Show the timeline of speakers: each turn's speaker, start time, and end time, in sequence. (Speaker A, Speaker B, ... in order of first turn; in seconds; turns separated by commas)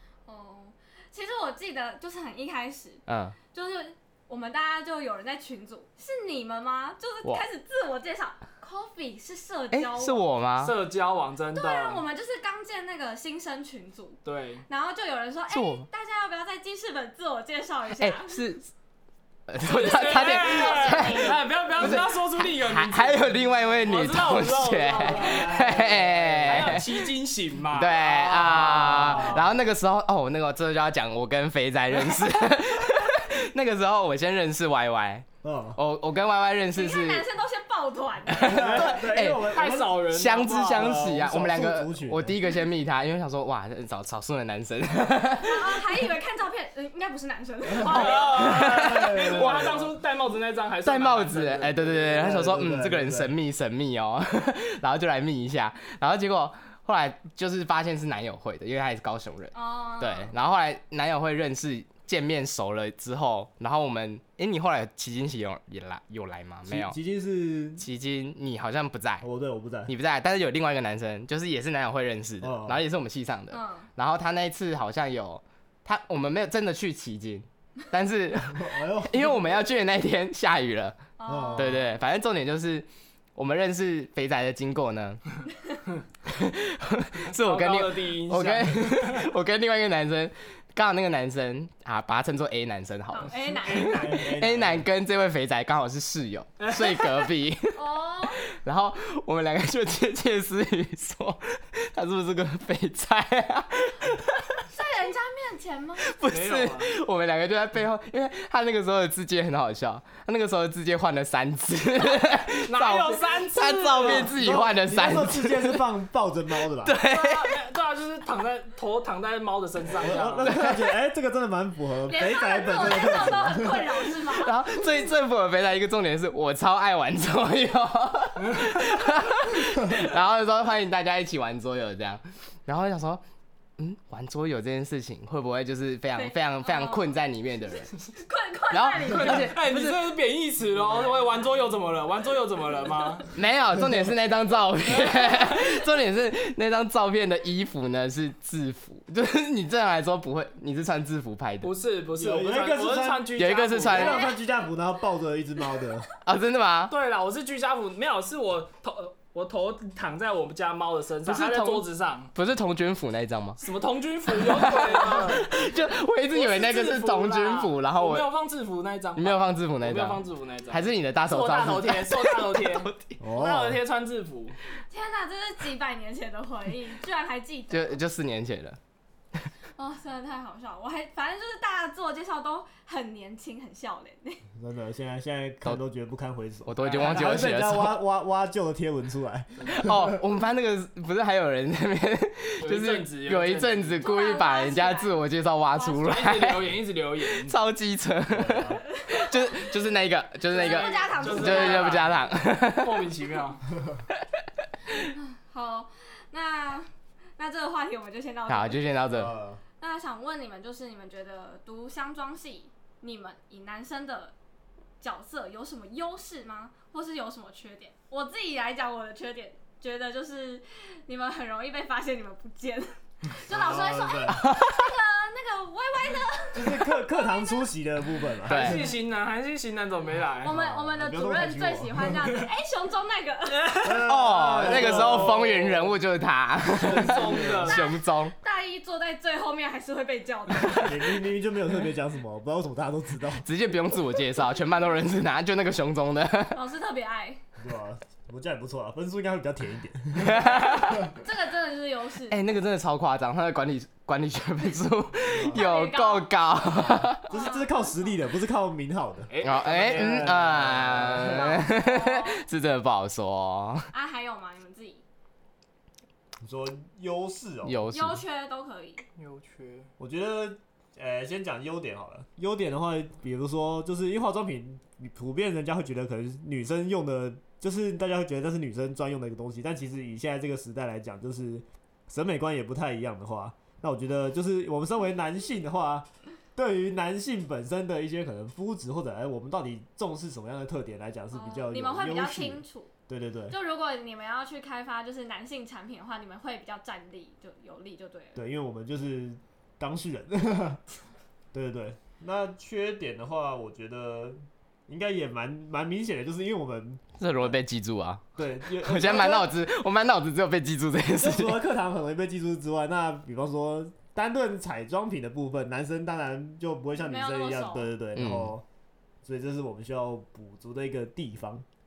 Speaker A: 0.3-10.3, Speaker B: 3.1-3.4, Speaker B: 9.7-10.8, Speaker C: 10.6-12.0, Speaker A: 11.5-18.5, Speaker C: 14.2-14.7, Speaker B: 15.5-15.9, Speaker B: 17.9-18.7, Speaker B: 19.5-26.9, Speaker C: 19.6-29.4, Speaker A: 19.8-21.4, Speaker D: 25.0-26.4, Speaker B: 27.7-37.3, Speaker D: 29.0-29.5, Speaker D: 35.4-35.8, Speaker A: 36.7-38.9, Speaker B: 38.3-45.8, Speaker D: 38.4-40.0, Speaker C: 39.5-41.4, Speaker D: 40.8-42.4, Speaker A: 45.4-48.5, Speaker B: 47.8-49.4, Speaker C: 47.9-52.0, Speaker D: 48.6-49.9, Speaker B: 50.8-67.0, Speaker D: 52.0-53.3, Speaker A: 59.5-60.3, Speaker D: 66.7-67.8, Speaker B: 67.8-69.3, Speaker D: 69.2-69.9, Speaker B: 69.9-85.2, Speaker D: 72.4-72.8, Speaker A: 73.5-73.9, Speaker D: 78.5-79.4, Speaker A: 81.2-81.8, Speaker D: 81.3-81.8, Speaker B: 86.3-93.3, Speaker C: 87.3-89.1, Speaker A: 93.1-94.2, Speaker C: 93.3-94.3, Speaker D: 93.7-94.9, Speaker B: 94.4-97.8, Speaker C: 96.6-97.3, Speaker A: 97.8-98.4, Speaker B: 98.6-104.6, Speaker A: 104.7-106.1, Speaker B: 106.0-115.8, Speaker C: 106.3-106.9, Speaker C: 112.6-114.4, Speaker D: 114.2-117.0, Speaker B: 116.8-117.5, Speaker C: 117.0-120.5, Speaker D: 120.0-124.0, Speaker B: 120.5-120.9, Speaker A: 122.1-124.7, Speaker B: 124.3-133.2, Speaker B: 133.8-137.9, Speaker A: 136.1-137.2, Speaker A: 137.8-139.4, Speaker B: 138.7-140.0, Speaker C: 139.1-143.3, Speaker B: 143.3-151.7, Speaker C: 151.6-154.3, Speaker D: 152.2-153.3, Speaker B: 153.3-154.2, Speaker D: 153.9-156.1, Speaker A: 154.0-154.3, Speaker B: 156.2-156.9, Speaker C: 156.9-162.3, Speaker B: 161.3-163.6, Speaker C: 163.6-165.5, Speaker B: 164.4-168.3, Speaker C: 166.3-174.6, Speaker B: 169.2-173.2, Speaker D: 173.2-173.8, Speaker A: 174.9-178.0, Speaker B: 177.7-178.8, Speaker A: 179.8-184.4, Speaker D: 184.6-190.2, Speaker B: 186.7-188.0, Speaker C: 186.8-187.3, Speaker B: 189.7-196.7, Speaker C: 192.6-194.0, Speaker A: 194.0-195.2, Speaker A: 195.8-196.1, Speaker C: 195.9-197.6, Speaker B: 197.3-202.9, Speaker D: 198.3-198.8, Speaker A: 200.5-202.0, Speaker C: 200.6-203.6, Speaker A: 205.0-208.9, Speaker B: 208.5-209.3, Speaker D: 209.1-209.6, Speaker A: 209.8-214.3, Speaker A: 215.0-227.8, Speaker D: 223.5-224.4, Speaker B: 224.4-224.8, Speaker D: 226.5-228.8, Speaker B: 228.5-228.8, Speaker C: 228.5-230.6, Speaker A: 228.7-229.0, Speaker A: 230.4-233.9, Speaker D: 230.5-232.4, Speaker D: 233.8-235.6, Speaker B: 234.1-238.3, Speaker C: 234.6-235.5, Speaker C: 236.8-237.8, Speaker D: 236.8-237.7, Speaker A: 237.7-240.9, Speaker D: 240.8-243.5, Speaker B: 243.4-246.6, Speaker A: 246.5-247.4, Speaker D: 247.6-250.7, Speaker B: 250.2-251.1, Speaker A: 251.1-252.4, Speaker B: 252.3-257.3, Speaker D: 255.3-255.7, Speaker A: 255.5-258.2, Speaker D: 257.3-259.3, Speaker C: 259.3-260.3, Speaker B: 259.4-263.8, Speaker D: 259.9-261.5, Speaker A: 261.2-262.4, Speaker A: 263.9-265.0, Speaker D: 266.4-267.8, Speaker B: 267.6-268.2, Speaker A: 267.9-269.1, Speaker C: 269.2-269.9, Speaker D: 270.0-293.6, Speaker A: 291.3-292.9, Speaker A: 293.5-298.4, Speaker D: 298.4-300.8, Speaker D: 301.5-307.5, Speaker B: 307.2-311.6, Speaker D: 308.4-309.6, Speaker D: 311.1-318.6, Speaker A: 317.0-317.9, Speaker B: 318.1-318.5, Speaker D: 319.2-321.6